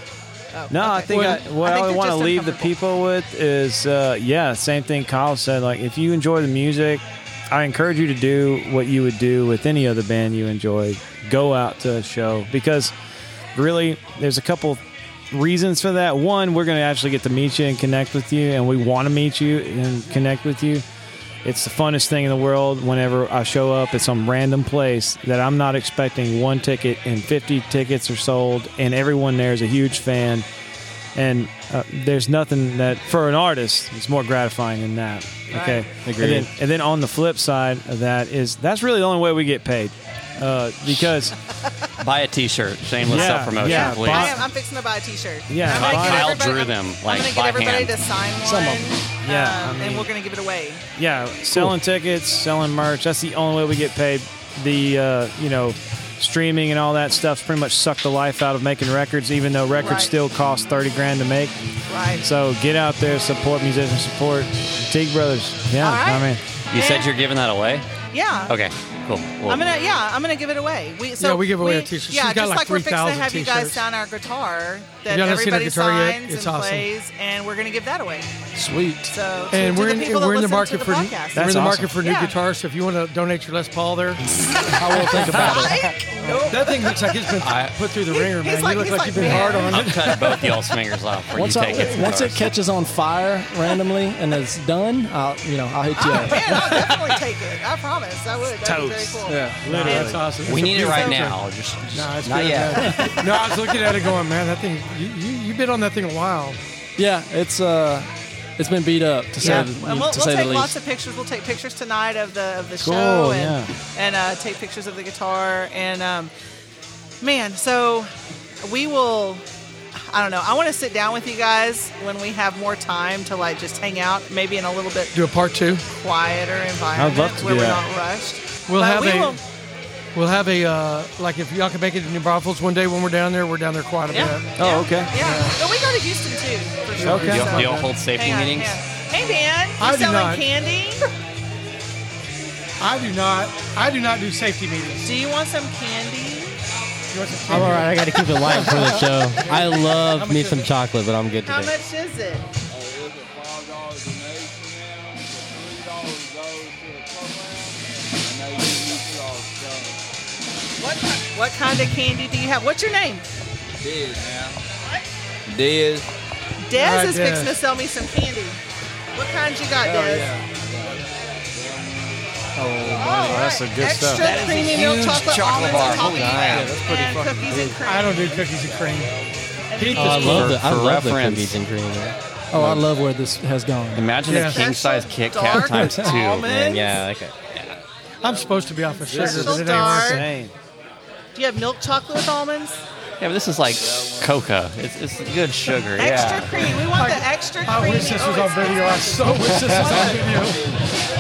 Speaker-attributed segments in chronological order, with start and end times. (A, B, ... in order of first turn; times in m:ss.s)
0:00.5-0:02.7 A
0:00.7-0:12.9 B
0:01.1-0:01.4 C
0:13.6-0:14.8 B
0:15.3-0:20.8 B
0:21.4-0:30.4 B
0:31.2-0:41.3 B
0:35.5-0:35.9 A
0:36.0-0:36.5 D
0:42.0-0:44.5 E
0:43.0-0:44.4 B
0:43.1-0:50.8 A
0:45.5-0:46.3 B
0:45.6-0:47.9 E
0:48.4-0:49.0 F
0:49.2-0:50.1 B
0:51.0-1:01.6 B
0:59.8-1:00.2 A
1:01.9-1:02.2 A
1:02.2-1:06.4 B
1:05.8-1:07.1 A
1:06.7-1:07.8 E
1:08.1-1:08.5 A
1:08.5-1:09.7 E
1:09.5-1:18.3 A
1:11.2-1:13.8 C
1:15.1-1:16.9 C
1:18.6-1:19.1 F
1:19.1-1:22.3 A
1:19.5-1:24.2 C
1:21.4-1:21.9 B
1:24.6-1:26.9 A
1:24.7-1:25.9 F
1:24.8-1:25.7 C
1:26.4-1:30.6 C
1:27.4-1:27.8 E
1:28.1-1:29.9 A
1:29.6-1:32.5 E
1:31.3-1:36.8 F
1:36.0-1:40.2 A
1:38.6-1:40.2 B
1:39.3-1:39.8 F
1:39.7-1:41.4 C
1:40.4-1:43.0 E
1:40.8-1:41.3 A
1:41.9-1:46.6 C
1:42.8-1:43.9 A
1:47.0-1:50.7 F
1:49.4-1:56.3 A
1:52.8-1:53.7 B
1:57.2-1:58.1 A
1:58.6-1:59.4 A
2:00.0-2:05.1 A
2:05.1-2:05.9 C
2:06.0-2:09.4 A
2:07.0-2:07.8 B
2:08.7-2:09.4 C
2:10.2-2:14.6 C
2:14.1-2:21.1 A
2:14.6-2:15.1 B
2:15.2-2:15.6 C
2:17.0-2:17.9 C
2:17.0-2:17.4 B
2:17.3-2:18.8 E
2:19.8-2:20.5 C
2:22.8-2:25.1 C
2:25.0-2:26.6 A
2:27.1-2:30.7 C
2:27.5-2:31.7 D
2:31.5-2:32.5 A
2:32.7-2:40.0 G
2:40.8-2:43.3 A
2:43.8-2:44.6 G
2:45.5-2:46.1 G
2:46.6-2:48.6 A
2:46.7-2:47.6 C
2:49.1-2:50.3 A
2:49.8-2:50.5 F
2:50.6-2:52.2 G
2:52.6-2:53.4 F
2:52.8-2:53.2 G
2:53.0-2:58.4 A
2:53.3-2:54.3 B
2:54.2-2:56.8 E
2:54.4-2:54.7 G
2:56.0-2:57.8 F
2:57.8-2:59.1 C
2:58.4-2:59.1 G
2:59.7-3:00.5 A
2:59.8-3:00.6 C
3:00.0-3:02.8 D
3:00.1-3:01.6 E
3:02.5-3:04.2 F
3:04.0-3:06.7 E
3:04.2-3:04.6 C
3:04.3-3:06.9 A
3:06.5-3:07.3 D
3:08.2-3:10.3 C
3:09.1-3:10.5 B
3:09.1-3:10.3 A
3:11.4-3:12.8 A
3:13.2-3:16.7 E
3:13.8-3:14.3 G
3:16.0-3:20.2 A
3:16.9-3:20.6 C
3:19.7-3:20.9 G